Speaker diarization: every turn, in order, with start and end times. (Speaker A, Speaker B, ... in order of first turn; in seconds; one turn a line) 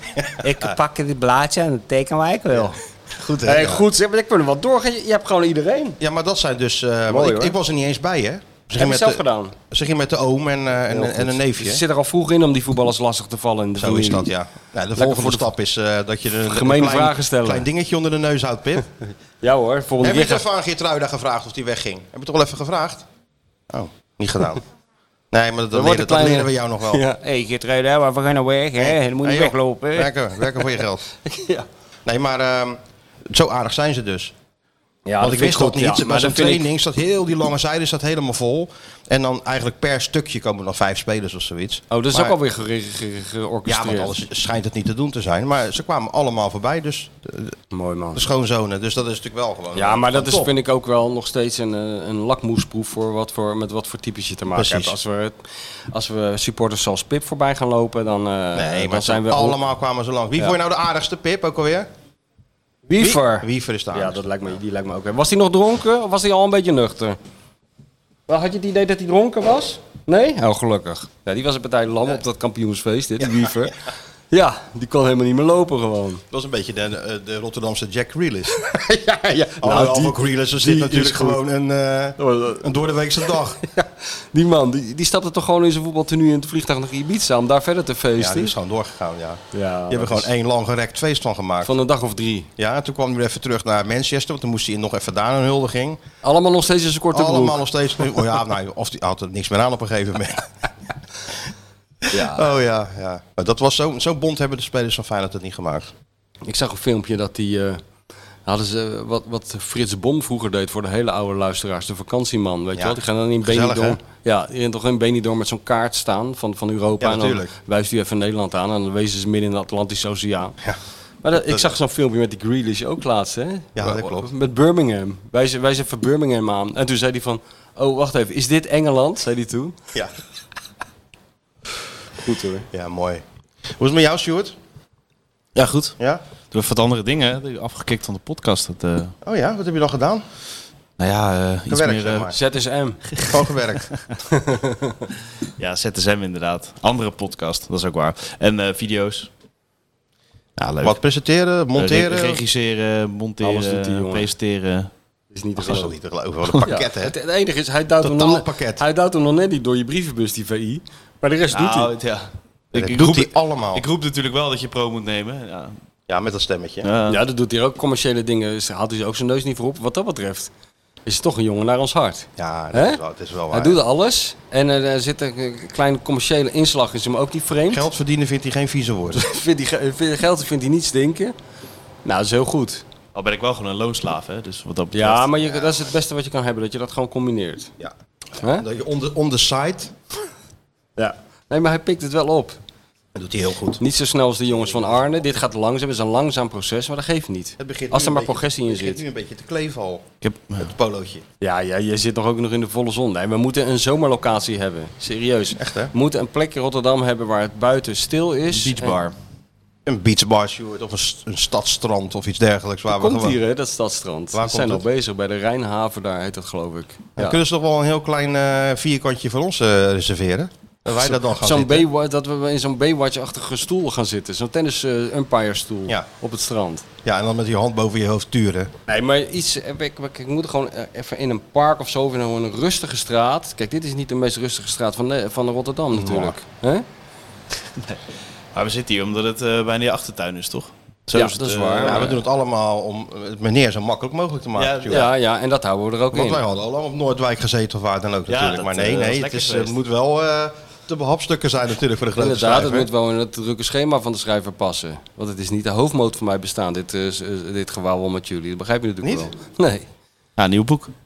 Speaker A: 0.2-0.8
Speaker B: 0.4-2.8
Speaker A: 2.5-3.9
Speaker B: 3.4-6.0
Speaker A: 6.0-11.8
Speaker B: 7.1-7.6
Speaker B: 8.7-9.5
Speaker B: 10.9-14.3
Speaker A: 13.8-18.9
Speaker B: 14.9-15.5
Speaker B: 16.5-17.6
Speaker B: 19.4-20.4
Speaker A: 20.0-23.0
Speaker A: 23.7-24.6
Speaker A: 25.3-27.0
Speaker B: 25.7-30.7
Speaker A: 28.8-31.0
Speaker B: 31.2-31.7
Speaker A: 32.0-32.8
Speaker A: 33.3-34.3
Speaker B: 35.1-36.6
Speaker A: 35.2-42.4
Speaker B: 41.9-44.2
Speaker A: 43.6-47.5
Speaker B: 47.7-48.3
Speaker A: 48.1-50.5
Speaker B: 49.7-55.4
Speaker A: 54.5-54.9
Speaker B: 55.9-59.6
Speaker A: 58.5-61.9
Speaker B: 62.9-67.2
Speaker A: 63.0-64.2
Speaker B: 68.3-73.8
Speaker A: 73.2-73.7
Speaker B: 74.3-76.2
Speaker A: 76.3-78.6
Speaker B: 78.5-81.4
Speaker A: 79.6-83.6
Speaker B: 82.2-82.7
Speaker B: 83.6-88.5
Speaker A: 88.2-91.7
Speaker B: 89.5-90.3
Speaker B: 91.6-92.5
Speaker A: 92.6-96.0
Speaker B: 96.2-97.6
Speaker A: 97.1-100.5
Speaker A: 102.0-105.9
Speaker B: 102.1-102.4
Speaker B: 106.4-107.8
Speaker B: 108.5-120.6
Speaker A: 112.8-114.0
Speaker A: 117.0-117.5
Speaker B: 121.2-129.8
Speaker A: 121.3-121.7
Speaker A: 123.8-124.3
Speaker B: 132.2-132.7
Speaker A: 132.7-133.2
Speaker A: 133.8-134.6
Speaker C: 135.6-136.0
Speaker C: 136.5-139.1
Speaker A: 139.2-140.2
Speaker C: 141.0-142.3
Speaker A: 141.7-142.4
Speaker B: 142.3-143.0
Speaker C: 143.1-143.4
Speaker A: 143.3-143.9
Speaker B: 144.3-145.0
Speaker C: 145.6-149.3
Speaker C: 150.6-151.0
Speaker A: 150.8-152.4
Speaker C: 151.8-154.9
Speaker B: 153.4-154.3
Speaker B: 155.3-155.9
Speaker A: 155.6-157.1
Speaker B: 156.6-161.9
Speaker A: 158.0-158.8
Speaker C: 161.5-165.8
Speaker A: 162.7-163.8
Speaker A: 166.1-166.9
Speaker C: 166.8-167.2
Speaker B: 167.1-170.5
Speaker B: 171.1-173.0
Speaker A: 172.4-173.8
Speaker B: 173.5-177.8
Speaker A: 177.7-179.2
Speaker B: 179.1-181.3
Speaker B: 182.0-182.8
Speaker C: 183.1-185.3
Speaker B: 184.9-187.7
Speaker A: 187.8-189.9
Speaker B: 191.0-192.6
Speaker A: 193.1-193.8
Speaker B: 193.8-199.0
Speaker A: 194.5-195.1
Speaker A: 197.6-200.1
Speaker C: 200.2-200.7
Speaker A: 200.6-201.2
Speaker B: 201.4-209.0
Speaker A: 205.6-205.9
Speaker C: 208.5-209.1
Speaker A: 209.8-213.4
Speaker B: 212.9-217.4
Speaker A: 214.3-214.8
Speaker A: 217.2-221.9
Speaker B: 221.0-226.8
Speaker A: 227.0-228.7
Speaker B: 228.9-236.8
Speaker A: 235.9-236.3
Speaker C: 238.5-242.1
Speaker B: 241.1-242.2
Speaker A: 241.8-245.1
Speaker C: 244.6-245.0
Speaker B: 244.9-246.4
Speaker A: 246.1-252.9
Speaker C: 248.3-249.7
Speaker B: 252.2-259.9
Speaker A: 259.0-259.3
Speaker C: 260.4-260.9